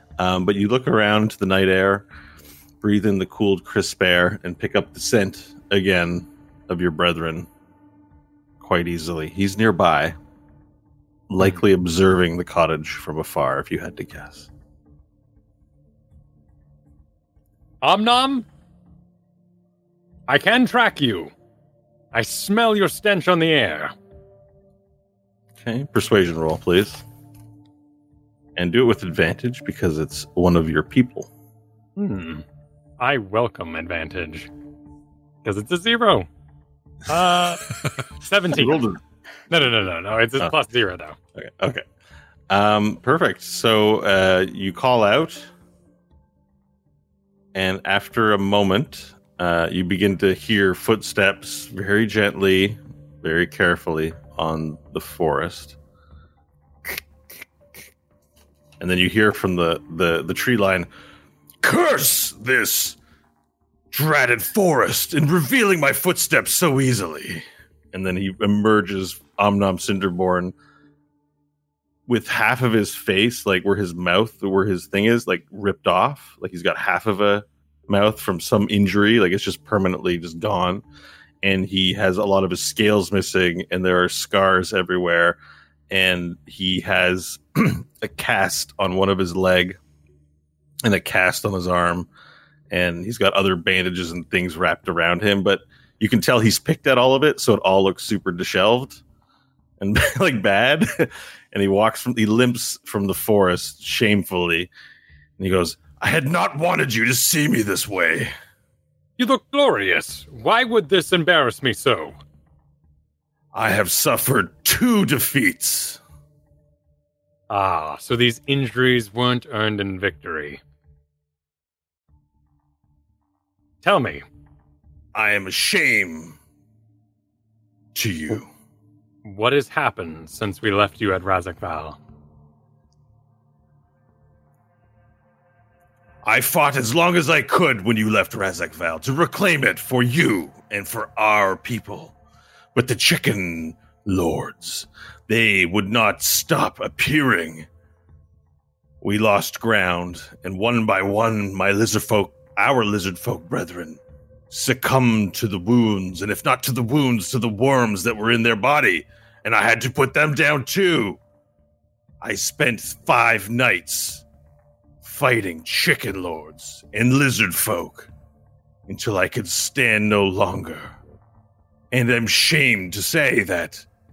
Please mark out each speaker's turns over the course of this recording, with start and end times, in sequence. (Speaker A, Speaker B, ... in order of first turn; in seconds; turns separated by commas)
Speaker A: 0.2-2.0, Speaker A: 2.8-7.5, Speaker A: 8.6-10.2, Speaker A: 11.3-14.5, Speaker B: 17.8-18.4, Speaker B: 20.3-21.3, Speaker B: 22.1-23.9, Speaker A: 25.6-27.0, Speaker A: 28.6-31.3, Speaker B: 32.0-32.4, Speaker B: 33.0-34.5, Speaker B: 35.4-36.3, Speaker B: 37.1-38.9, Speaker A: 38.5-39.0, Speaker B: 39.5-41.1, Speaker A: 41.4-41.8, Speaker A: 42.5-45.5, Speaker A: 47.5-55.8, Speaker A: 58.8-60.9, Speaker A: 61.6-63.0, Speaker A: 63.9-70.5, Speaker A: 72.1-80.8, Speaker A: 81.4-85.4, Speaker A: 85.9-89.8, Speaker A: 90.8-92.1, Speaker A: 92.7-99.0, Speaker A: 99.8-104.7, Speaker A: 105.4-108.3, Speaker B: 109.2-112.1, Speaker A: 113.5-116.0, Speaker B: 117.5-120.6, Speaker B: 123.8-124.2, Speaker A: 125.1-126.4, Speaker A: 127.9-128.5, Speaker B: 129.2-132.0, Speaker A: 136.2-142.2, Speaker A: 142.7-147.7, Speaker A: 149.0-161.2, Speaker A: 162.2-164.2, Speaker A: 165.0-168.1, Speaker A: 168.9-170.9, Speaker A: 171.9-173.9